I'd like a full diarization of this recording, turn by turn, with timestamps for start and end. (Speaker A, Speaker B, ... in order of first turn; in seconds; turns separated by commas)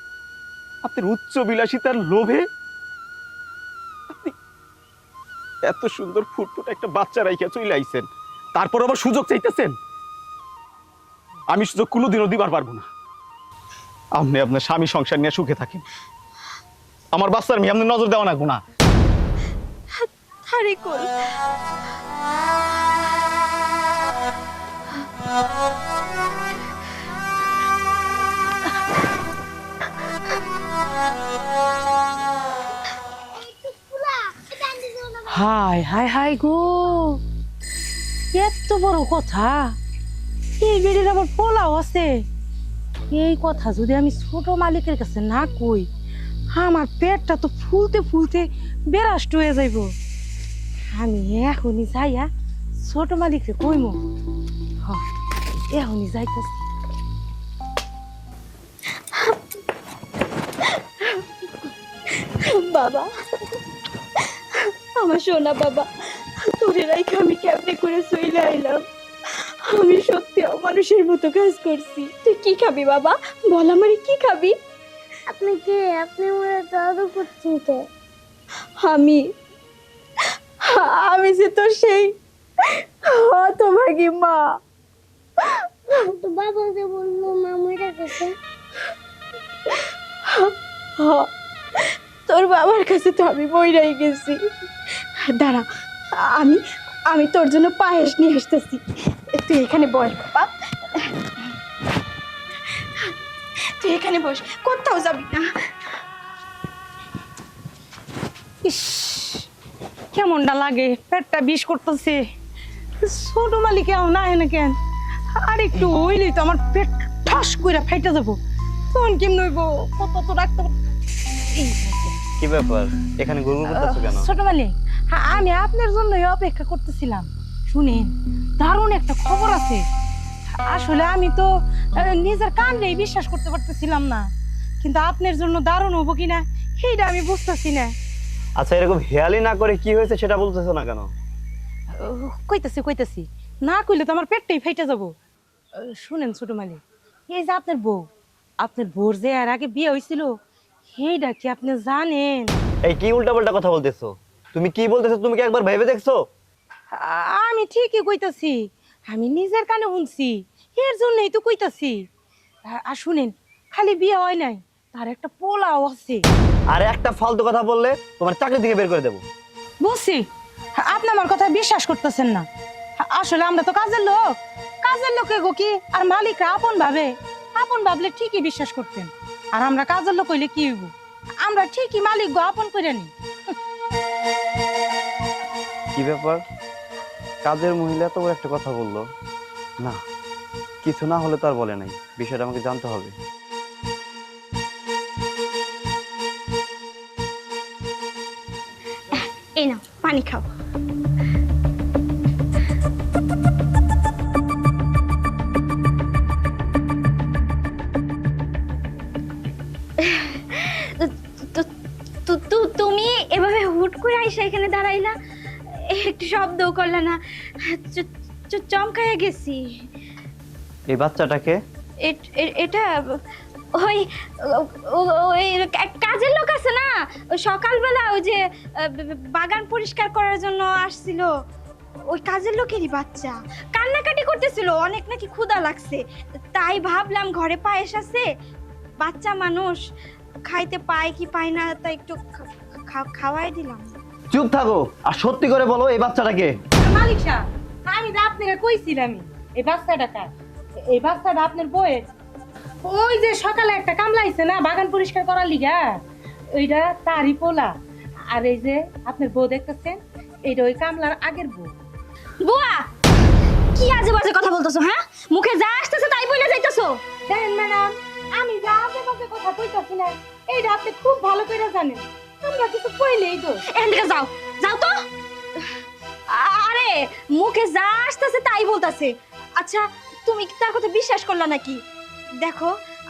Speaker A: 0.8-2.5, Speaker A: 5.6-9.7, Speaker A: 11.5-12.8, Speaker A: 14.1-15.8, Speaker A: 17.1-18.6, Speaker B: 20.4-21.1, Speaker C: 33.4-35.3, Speaker D: 35.3-37.2, Speaker D: 38.3-39.8, Speaker D: 40.6-42.2, Speaker D: 43.1-45.9, Speaker D: 46.5-49.9, Speaker D: 50.9-54.0, Speaker D: 55.7-56.6, Speaker B: 62.1-63.1, Speaker B: 64.2-65.9, Speaker B: 66.5-68.8, Speaker B: 69.7-74.5, Speaker C: 75.3-77.9, Speaker B: 78.8-79.2, Speaker B: 80.7-82.1, Speaker B: 83.0-84.5, Speaker C: 86.1-88.3, Speaker B: 90.3-91.3, Speaker B: 92.3-94.4, Speaker B: 95.3-98.8, Speaker B: 99.4-101.1, Speaker B: 103.8-105.5, Speaker D: 108.6-109.5, Speaker D: 110.1-112.2, Speaker D: 113.0-114.7, Speaker D: 115.3-118.4, Speaker D: 118.9-120.7, Speaker D: 121.5-122.1, Speaker E: 122.4-124.3, Speaker D: 123.7-129.8, Speaker D: 130.6-134.3, Speaker D: 134.8-137.9, Speaker E: 138.6-141.1, Speaker D: 142.0-145.1, Speaker D: 145.8-148.1, Speaker D: 148.6-150.3, Speaker D: 150.9-152.5, Speaker E: 152.8-156.2, Speaker D: 156.9-162.0, Speaker D: 162.6-166.2, Speaker E: 166.7-169.2, Speaker D: 169.8-170.2, Speaker D: 170.8-172.4, Speaker D: 173.0-174.3, Speaker D: 174.8-180.9, Speaker D: 181.4-183.5, Speaker E: 185.9-186.4, Speaker E: 187.4-189.1, Speaker E: 190.8-193.1, Speaker B: 199.1-200.4, Speaker B: 210.0-211.7, Speaker B: 212.2-215.1, Speaker B: 215.9-217.2, Speaker B: 217.7-219.7, Speaker E: 220.9-221.6, Speaker B: 222.0-223.2, Speaker B: 223.8-231.3, Speaker B: 232.1-236.0, Speaker B: 236.5-238.2, Speaker B: 239.0-239.8, Speaker B: 240.4-242.2, Speaker B: 242.9-243.9, Speaker E: 244.3-246.5, Speaker D: 246.8-250.3, Speaker D: 250.9-252.1, Speaker D: 252.8-256.0, Speaker D: 256.5-257.7, Speaker D: 258.3-261.7, Speaker B: 262.4-262.9, Speaker B: 263.7-267.0, Speaker D: 267.3-273.6, Speaker B: 273.7-274.9, Speaker B: 276.3-281.8, Speaker B: 282.4-282.7